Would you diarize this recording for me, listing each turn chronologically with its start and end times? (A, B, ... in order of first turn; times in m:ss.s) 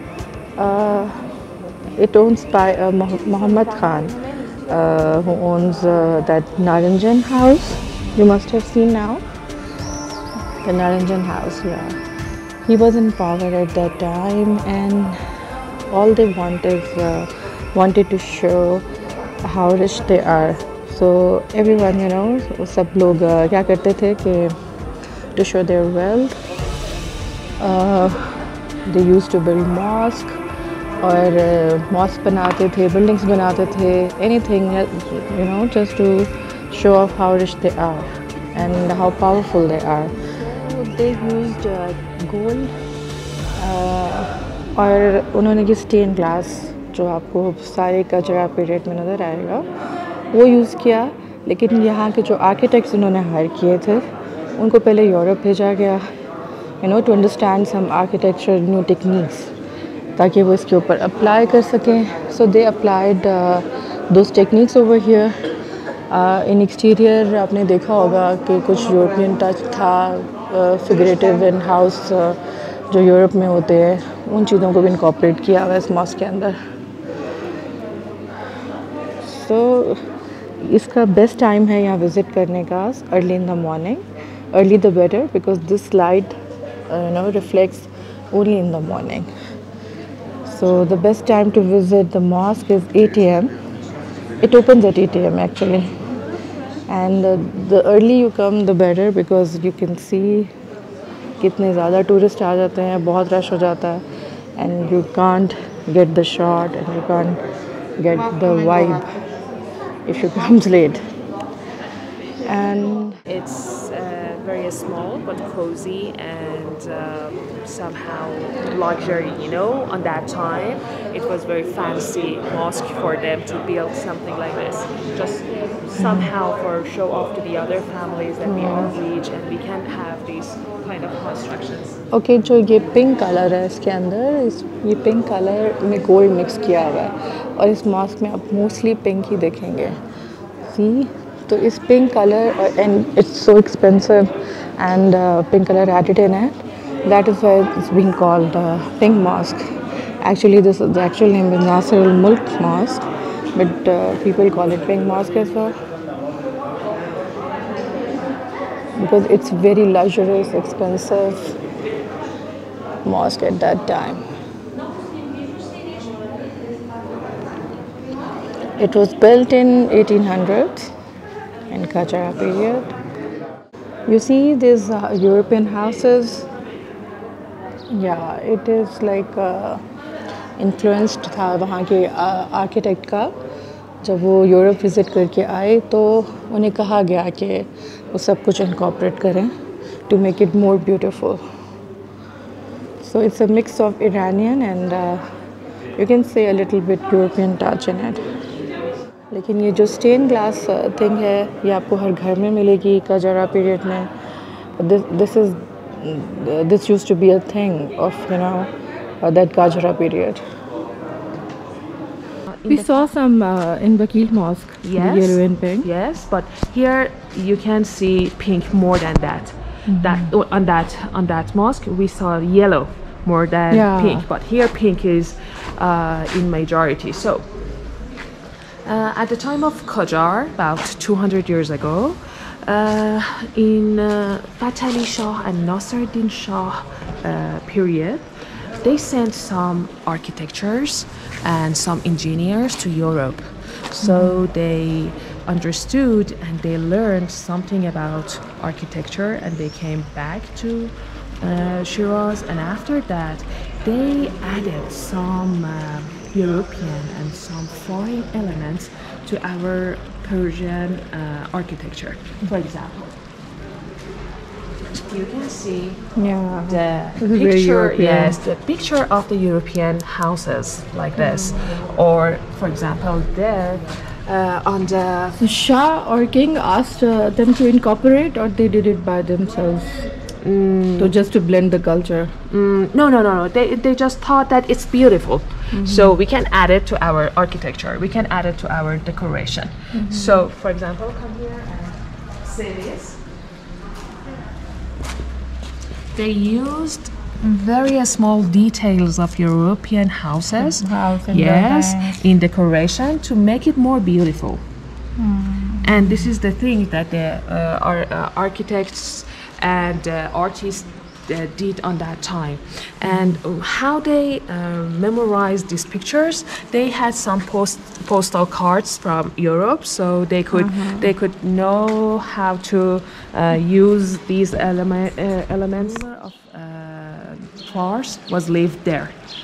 0:00.6-0:01.2 A
0:02.0-0:09.2 A
0:10.6-0:12.0 A
0:12.6-0:15.2 A
0:15.9-0:18.8 A
0:19.4-0:24.5 A
0:25.4-0:26.4 A
0:27.6-0:30.4 A
0:31.0-0:42.7 A
0:43.6-0:49.7 A
0:50.3-0:54.1 A
0:54.6-0:56.0 A
0:56.8-0:59.5 A
1:00.2-1:05.3 A
1:06.1-1:12.4 A
1:12.9-1:16.6 A
1:19.2-1:20.0 A
1:20.6-1:26.3 A
1:26.9-1:29.3 A
1:30.5-1:33.5 A
1:34.4-1:35.9 A
1:36.9-1:40.5 A
1:41.4-1:44.0 A
1:44.6-1:47.4 A
1:48.0-1:49.1 A
1:50.1-1:51.0 A
1:52.4-1:53.2 A
1:53.3-2:12.0 B
2:06.0-2:06.3 A
2:08.4-2:09.0 A
2:12.1-2:20.0 A
2:20.6-2:29.6 A
2:30.2-2:35.8 A
2:39.0-2:41.6 A
2:43.0-2:44.2 A
2:48.8-2:50.9 A
2:51.7-2:52.9 A
2:54.1-2:56.5 A
2:57.9-2:59.8 A
3:00.6-3:03.3 A
3:04.0-3:09.5 A
3:10.1-3:11.4 A
3:13.0-3:15.2 A
3:16.0-3:18.2 A
3:19.3-3:24.1 A
3:24.8-3:28.7 A
3:29.2-3:30.4 A
3:32.5-3:33.1 B
3:32.7-3:35.9 A
3:34.8-3:47.5 B
3:39.9-3:40.3 A
3:43.7-3:44.3 A
3:48.8-4:23.2 B
4:04.0-4:04.4 A
4:25.0-4:26.0 B
4:26.2-4:28.4 A
4:26.7-4:35.4 B
4:31.2-4:31.6 A
4:35.4-4:40.1 A
4:40.4-4:41.2 B
4:41.0-4:42.3 A
4:42.5-4:53.2 B
4:45.7-4:46.2 A
4:49.9-4:50.5 A
4:56.1-5:04.6 B
5:00.6-5:02.2 A
5:05.2-5:06.3 A
5:05.8-5:29.2 B
5:13.0-5:13.4 A
5:20.5-5:21.1 A